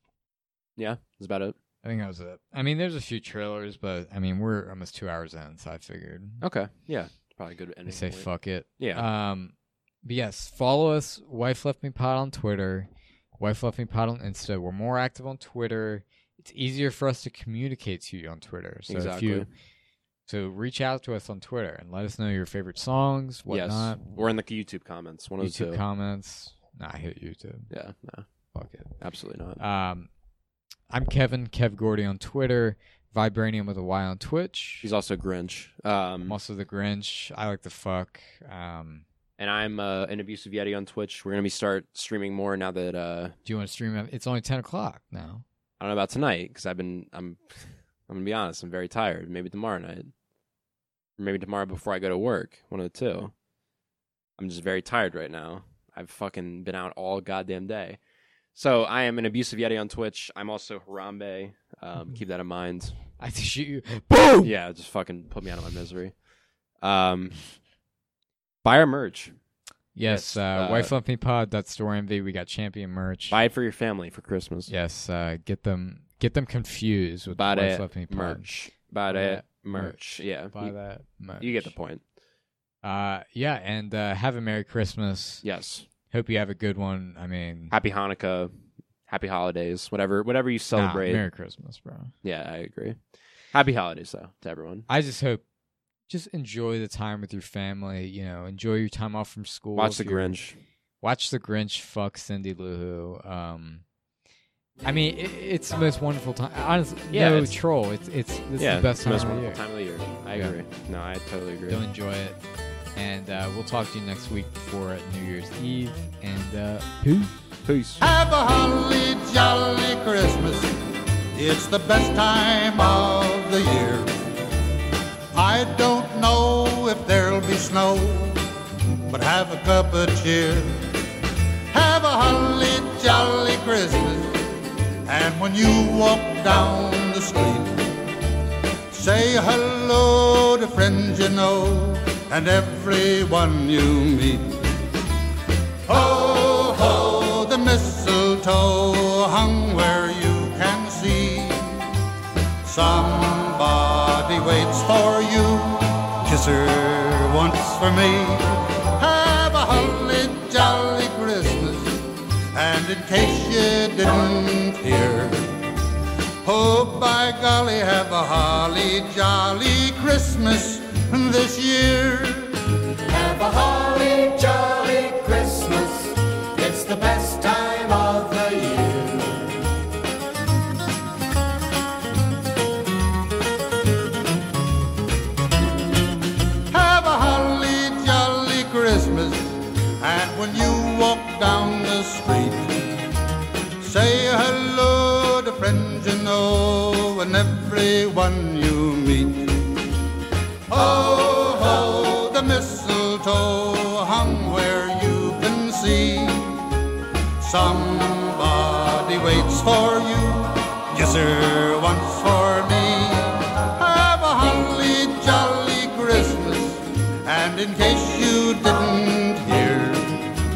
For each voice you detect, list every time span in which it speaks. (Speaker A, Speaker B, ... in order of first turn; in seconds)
Speaker A: 0.8-1.6, 6.4-9.1, 18.9-19.5, 23.5-25.8, 27.7-28.3, 29.0-29.6, 34.8-36.4, 39.4-43.4, 45.8-50.1, 51.2-53.3, 54.4-58.0, 58.5-63.0, 64.4-66.1, 66.8-67.5, 68.6-69.4, 70.1-70.9, 73.3-74.7, 77.3-80.8, 81.4-82.0, 85.4-85.9, 87.7-88.5, 89.1-91.2, 92.2-93.0, 93.5-94.9, 99.8-100.6, 107.1-107.6, 108.6-111.8, 117.7-118.0
Speaker B: 1.8-6.4, 7.9-19.5, 20.3-24.0, 25.4-27.7, 28.5-28.9, 29.6-30.1, 30.9-34.9, 36.2-39.0, 43.5-45.4, 63.2-64.5, 70.0-73.4, 74.7-78.5, 79.1-81.7, 82.8-85.5, 86.1-87.8, 90.8-92.1, 94.9-95.4, 96.1-100.4, 101.0-103.8, 104.8-109.6, 111.7-112.4, 113.0-117.4
Speaker C: 118.0-120.8, 121.3-124.2, 125.3-128.5, 129.1-130.9, 131.7-134.5, 135.1-137.9, 138.9-144.7, 145.9-151.9, 152.6-165.5, 166.4-172.6, 186.7-192.8, 193.8-199.8, 200.7-206.7, 207.4-220.2
Speaker D: 173.1-179.6